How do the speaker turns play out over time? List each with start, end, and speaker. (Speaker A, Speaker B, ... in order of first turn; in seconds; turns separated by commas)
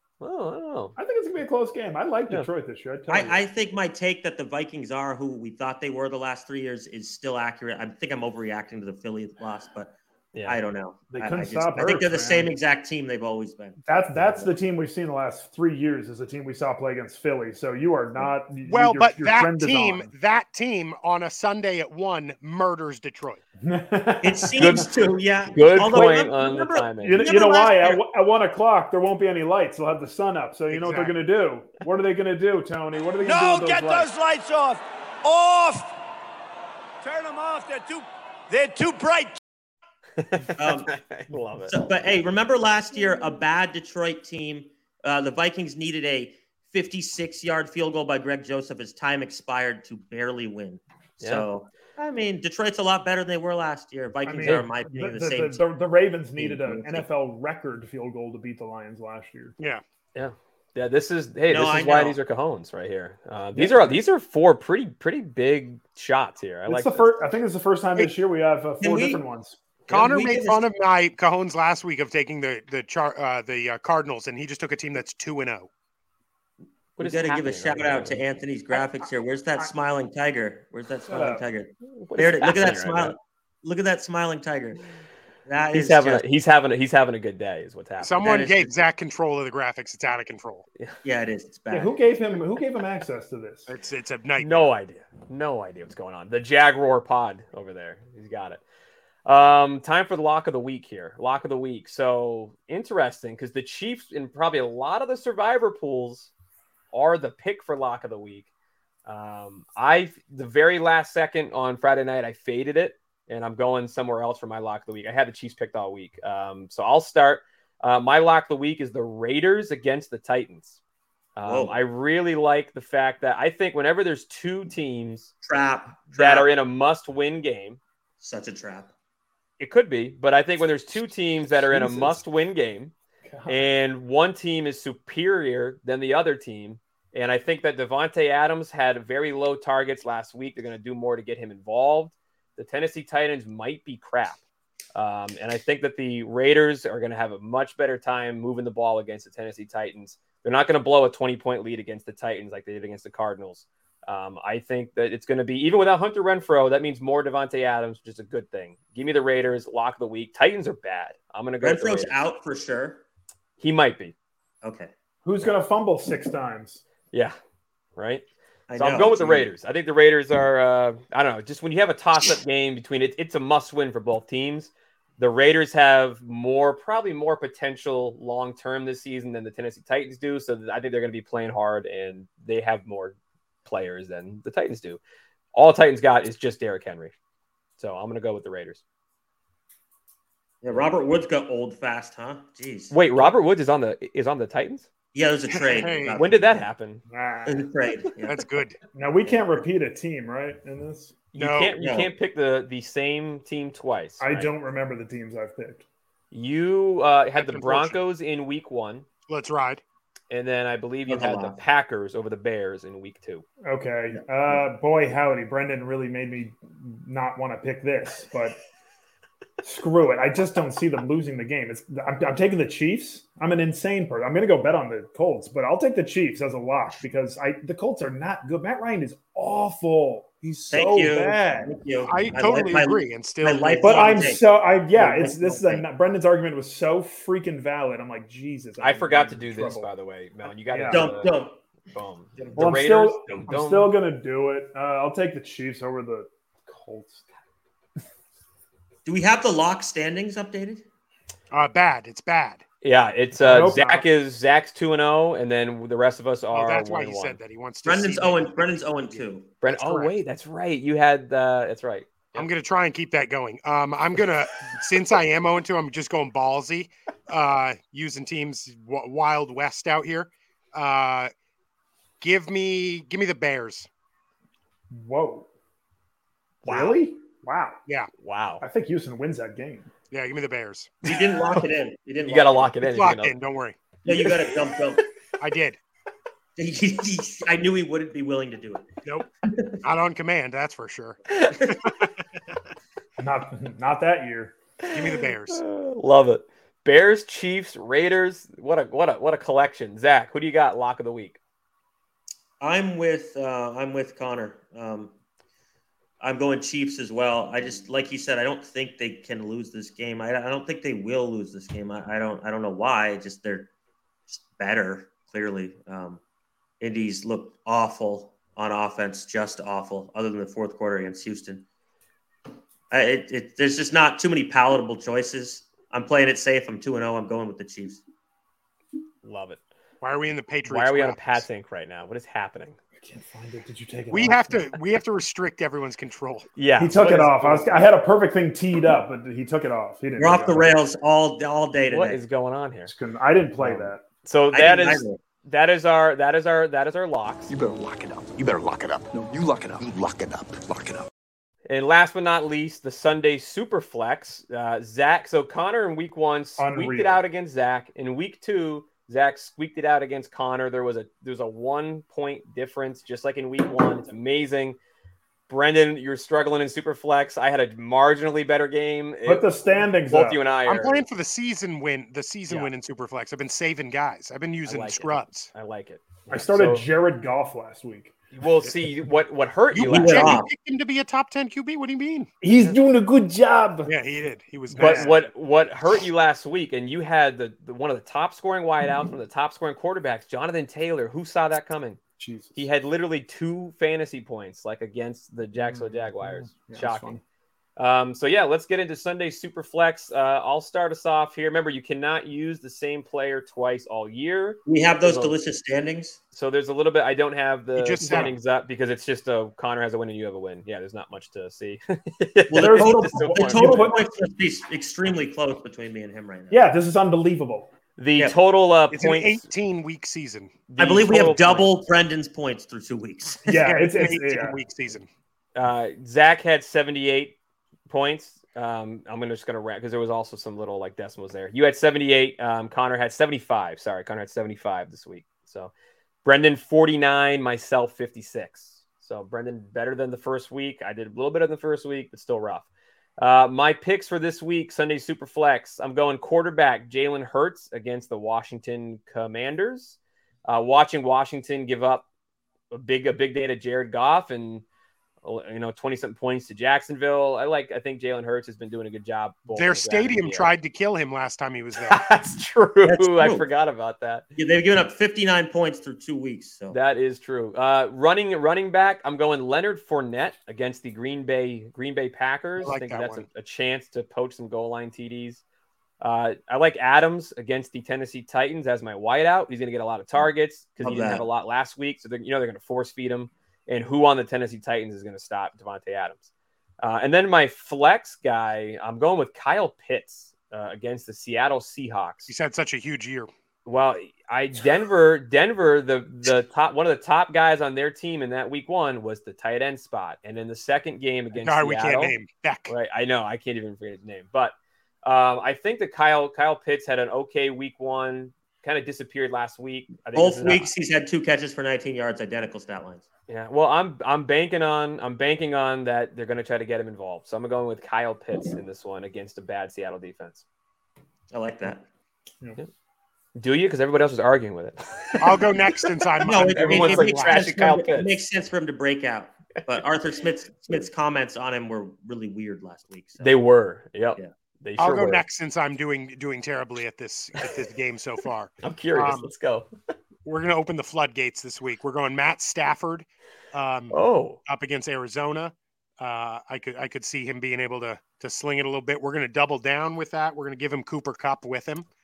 Speaker A: 0.2-0.9, Speaker B: 1.0-3.4, Speaker C: 3.1-14.5, Speaker A: 10.3-10.6, Speaker B: 11.1-12.5, Speaker B: 13.8-20.1, Speaker D: 18.6-23.4, Speaker B: 23.6-24.9, Speaker C: 24.2-28.0, Speaker A: 24.6-24.9, Speaker A: 25.5-27.3, Speaker B: 25.7-26.2, Speaker B: 27.0-34.1, Speaker D: 30.7-31.1, Speaker E: 33.2-35.9, Speaker E: 37.0-39.4, Speaker A: 40.2-41.7, Speaker C: 40.5-41.0, Speaker C: 41.7-55.6, Speaker A: 51.2-51.5, Speaker B: 54.2-59.5, Speaker C: 56.4-57.1, Speaker A: 60.1-67.1, Speaker C: 61.5-62.2, Speaker B: 63.5-64.0, Speaker B: 66.7-69.6, Speaker C: 68.8-69.2, Speaker C: 69.9-70.6, Speaker D: 69.9-75.7, Speaker A: 77.0-78.2, Speaker C: 77.0-84.8, Speaker B: 81.1-81.4, Speaker A: 81.9-83.2, Speaker C: 85.5-86.2, Speaker A: 85.7-88.5, Speaker D: 88.0-90.6, Speaker C: 88.2-88.8, Speaker C: 91.0-92.0, Speaker B: 91.7-93.7, Speaker D: 93.7-94.7, Speaker A: 94.4-98.6, Speaker A: 99.2-106.3, Speaker A: 106.9-108.5, Speaker A: 109.0-120.8, Speaker A: 121.3-125.3, Speaker C: 121.4-121.8, Speaker C: 125.4-126.5, Speaker A: 126.1-127.8, Speaker C: 128.2-128.9, Speaker A: 129.6-132.9, Speaker B: 131.7-132.2, Speaker B: 133.2-133.6, Speaker A: 133.5-144.4, Speaker A: 144.9-162.1, Speaker C: 161.6-163.0, Speaker A: 163.6-164.1, Speaker C: 164.6-164.9, Speaker B: 165.2-166.8, Speaker A: 167.9-185.0, Speaker C: 168.7-169.5, Speaker A: 185.5-187.1, Speaker A: 187.8-188.8, Speaker C: 190.6-193.0, Speaker A: 192.9-194.9, Speaker C: 195.1-196.6, Speaker D: 195.5-196.2, Speaker A: 196.1-197.0, Speaker B: 197.1-197.7, Speaker C: 197.4-198.4, Speaker D: 198.2-198.8, Speaker B: 198.9-201.2, Speaker A: 201.3-204.5, Speaker D: 201.4-201.7, Speaker C: 201.8-202.1, Speaker B: 204.2-205.8, Speaker A: 206.3-209.1, Speaker D: 207.3-208.0, Speaker D: 209.3-209.8, Speaker A: 210.3-213.4, Speaker C: 211.1-211.6, Speaker B: 213.6-218.6, Speaker C: 214.1-214.6, Speaker B: 219.6-231.7, Speaker C: 230.7-235.8, Speaker D: 232.1-234.3, Speaker B: 233.8-239.9, Speaker A: 238.8-241.3, Speaker B: 240.7-241.1, Speaker C: 240.9-241.6, Speaker A: 241.9-243.9, Speaker C: 242.4-242.7, Speaker B: 242.6-247.2, Speaker C: 249.0-250.8, Speaker D: 251.5-252.6, Speaker A: 252.8-257.4, Speaker B: 253.3-254.1, Speaker D: 256.5-260.1, Speaker C: 257.8-259.5, Speaker A: 259.6-262.5, Speaker D: 262.3-271.3, Speaker D: 272.2-273.9, Speaker B: 274.9-275.5, Speaker A: 276.6-277.0, Speaker B: 276.6-277.8, Speaker A: 278.2-278.6, Speaker B: 278.6-279.9, Speaker D: 280.1-281.0, Speaker C: 281.0-282.7, Speaker A: 282.2-283.3, Speaker D: 282.8-283.8, Speaker C: 284.0-285.0, Speaker A: 284.1-284.4, Speaker D: 285.4-285.8, Speaker C: 286.6-288.9, Speaker D: 289.0-289.3, Speaker C: 289.4-289.8, Speaker D: 289.8-292.1, Speaker B: 293.2-294.5, Speaker D: 294.9-295.6, Speaker A: 295.5-301.4, Speaker C: 302.6-305.1, Speaker C: 306.2-313.7, Speaker C: 314.3-316.2, Speaker C: 316.8-321.6, Speaker C: 322.9-328.0, Speaker A: 329.2-329.6, Speaker D: 330.0-331.4, Speaker A: 330.7-332.8, Speaker B: 333.0-334.7, Speaker D: 334.1-336.5, Speaker A: 336.6-337.8, Speaker B: 336.8-340.7, Speaker C: 340.1-342.2, Speaker A: 341.9-342.9, Speaker B: 342.9-344.0, Speaker A: 343.6-347.5, Speaker C: 344.5-345.2, Speaker F: 347.5-351.1, Speaker A: 351.7-364.8, Speaker B: 356.6-357.2, Speaker A: 365.5-369.5, Speaker B: 369.2-370.4, Speaker A: 370.1-371.0, Speaker D: 370.6-375.5, Speaker A: 374.6-376.9, Speaker B: 376.3-378.1, Speaker A: 378.3-380.4, Speaker D: 379.7-382.3, Speaker C: 379.9-380.5, Speaker B: 382.4-383.9, Speaker D: 383.9-385.2, Speaker B: 384.7-385.1, Speaker A: 384.8-392.0, Speaker B: 392.2-392.6, Speaker A: 392.6-397.2, Speaker B: 395.5-397.2, Speaker A: 397.8-405.3, Speaker C: 404.6-406.2, Speaker A: 406.3-413.9, Speaker D: 407.8-408.4, Speaker B: 408.0-408.3, Speaker C: 412.5-416.6, Speaker B: 412.5-414.0, Speaker B: 416.5-417.7, Speaker A: 418.0-419.5, Speaker D: 418.9-420.6, Speaker A: 420.7-421.8, Speaker C: 420.8-423.5, Speaker D: 423.4-425.1, Speaker B: 423.4-424.6, Speaker A: 425.5-427.4, Speaker A: 427.9-435.7, Speaker A: 436.2-452.0, Speaker A: 452.7-454.6, Speaker A: 455.2-460.5, Speaker D: 459.5-462.0, Speaker A: 461.8-464.2, Speaker C: 462.8-463.4, Speaker C: 464.4-466.8, Speaker A: 466.7-475.4, Speaker D: 472.6-473.2, Speaker A: 476.0-492.3, Speaker C: 480.8-481.2, Speaker D: 492.3-493.3, Speaker A: 493.6-502.1, Speaker D: 501.4-502.7, Speaker A: 502.7-510.7, Speaker C: 510.1-513.0, Speaker A: 513.3-520.4, Speaker C: 521.3-521.9, Speaker A: 523.4-528.1, Speaker D: 525.2-527.5, Speaker C: 526.2-533.3, Speaker A: 533.2-535.2, Speaker D: 534.8-539.3, Speaker A: 538.6-539.7, Speaker D: 540.2-551.9, Speaker A: 543.9-544.4